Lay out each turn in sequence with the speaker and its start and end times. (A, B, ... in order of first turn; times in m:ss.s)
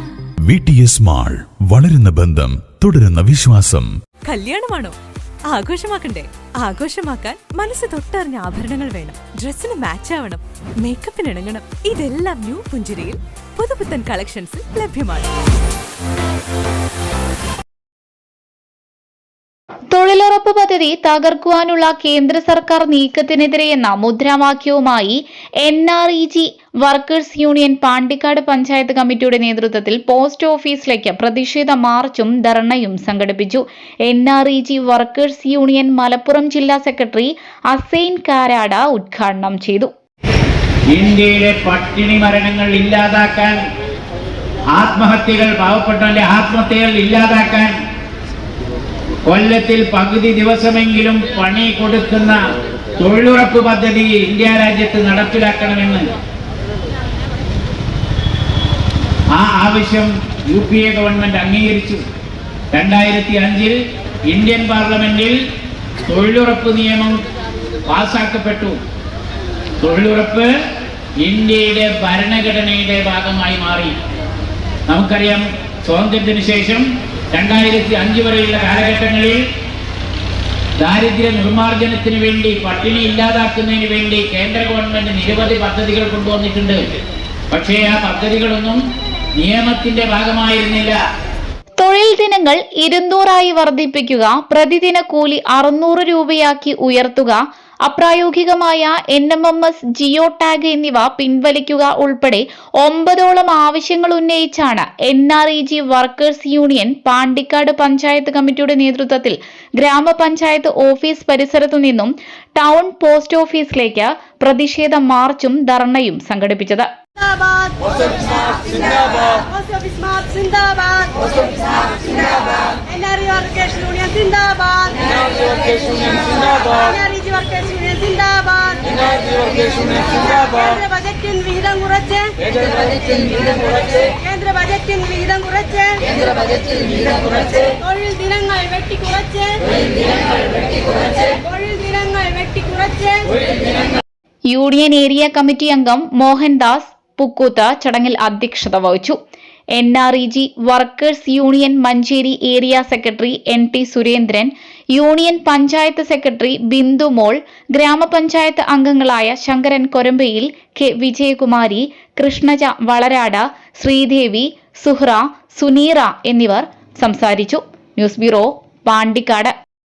0:00.4-0:03.9 A
0:04.3-0:05.0 B
0:05.5-0:15.3 B
0:19.9-0:39.9 C
0:40.9-0:43.6 D
0:44.7-0:47.8 D
0:49.3-0:52.4 D
0:53.0-0:56.1 D
0:59.3-1:02.0 D
1:02.7-1:05.4 D
1:06.0-1:07.2 D
1:07.9-1:08.8 D
1:09.8-1:10.5 D
1:11.2-1:14.0 D
1:14.9-1:19.4 D
1:20.8-1:26.8 D
1:27.5-1:28.8 D
1:29.4-1:31.0 D
1:31.8-1:56.9 C
2:00.1-2:01.0 E
2:03.0-2:05.1 E
2:06.6-2:08.7 E
2:10.5-2:12.2 E
2:14.6-2:15.8 E
2:18.1-2:19.2 E
2:24.5-2:29.2 C
2:29.8-2:49.5 C